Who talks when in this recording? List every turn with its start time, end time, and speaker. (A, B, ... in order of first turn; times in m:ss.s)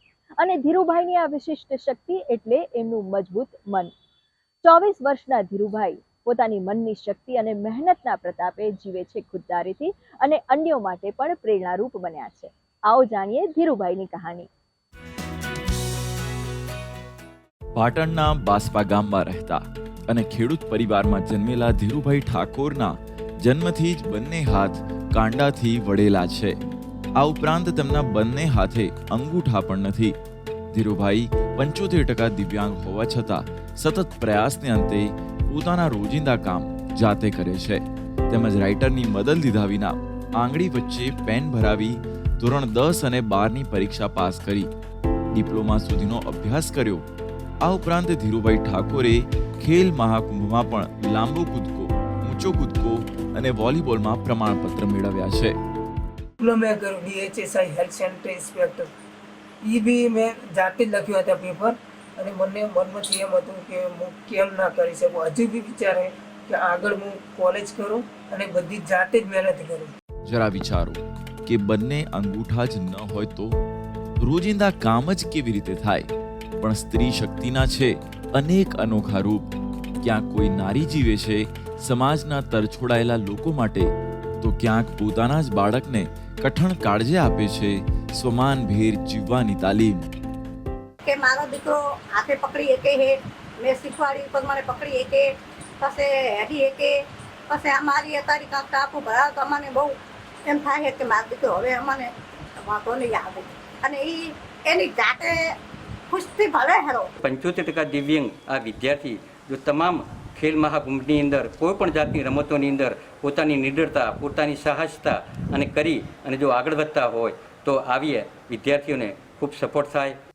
0:00.4-0:03.9 A
0:04.6-0:14.5 A
0:17.8-0:26.5 B
0:27.2-0:30.1 B
0:30.7-0:44.7 B
0:45.3-0:47.0 B
0:47.6-0:55.5 B
0:56.4-0:58.9 C
0:59.6-1:09.9 C
1:10.2-1:13.6 B
1:14.2-1:23.9 B
1:24.4-1:30.0 B
1:31.0-1:36.9 D
1:37.5-1:39.9 D
1:40.4-1:42.1 D
1:42.6-1:45.4 D
1:46.1-1:47.1 D
1:47.2-2:00.1 E